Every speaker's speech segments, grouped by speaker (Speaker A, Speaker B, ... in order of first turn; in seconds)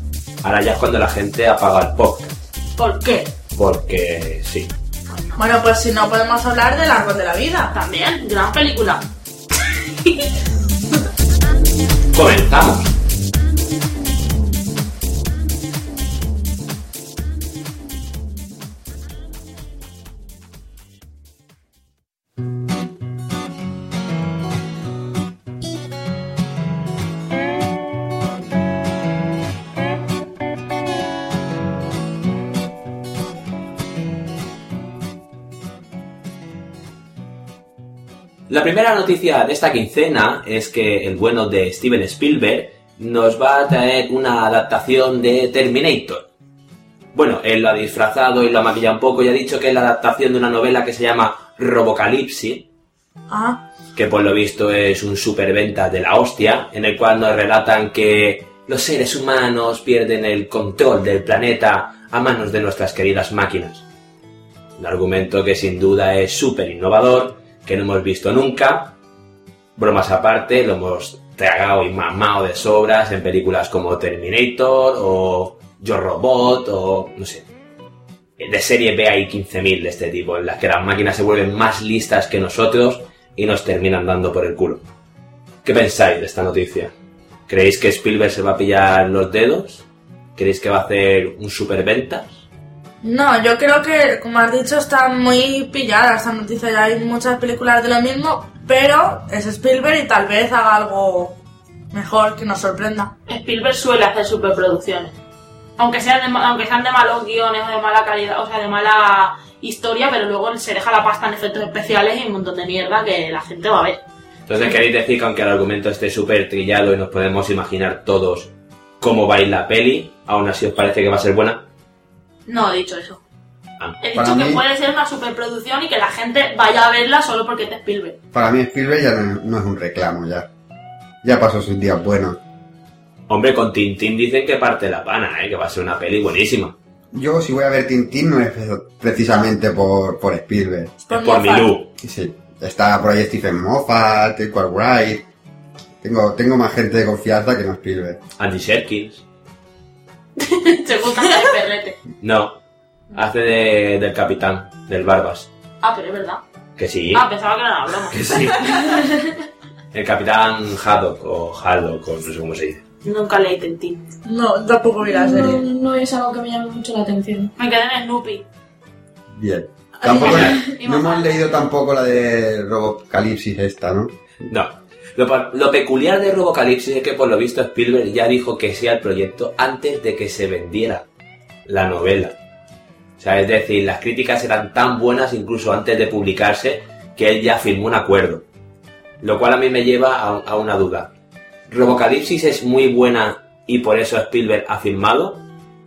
Speaker A: 0.4-2.4, 3.6-4.7, 12.1-12.9, 38.5-46.2, 47.1-52.6, 54.0-63.9, 64.8-69.0, 69.8-77.5, 78.4-84.8, 85.7-86.9, 87.5-89.8, 90.4-92.4, 114.5-121.6, 133.3-136.8, 141.1-141.9, 148.4-149.2, 152.2-152.6, 153.1-155.5, 156.8-157.3, 158.1-159.0, 159.9-162.8, 170.1-170.6, 174.5-181.1, 181.7-182.4, 183.2-188.4, 189.2-191.1, 191.7-195.4
Speaker B: 2.8-3.3, 5.1-5.4, 7.7-9.1, 103.3-105.2, 105.8-114.0, 122.5-123.2, 124.0-128.2, 150.4-152.0, 155.8-156.4, 157.1-158.8, 163.0-164.0, 167.6-168.4, 170.0-171.5
Speaker C: 5.4-7.8, 53.3-53.6, 93.0-101.4, 101.9-103.1, 141.1-141.8, 164.3-165.6
Speaker D: 124.2-124.6, 128.3-130.5, 131.2-132.4, 137.1-140.9, 142.0-145.2, 146.0-148.2, 169.3-174.2
Speaker E: 165.1-167.5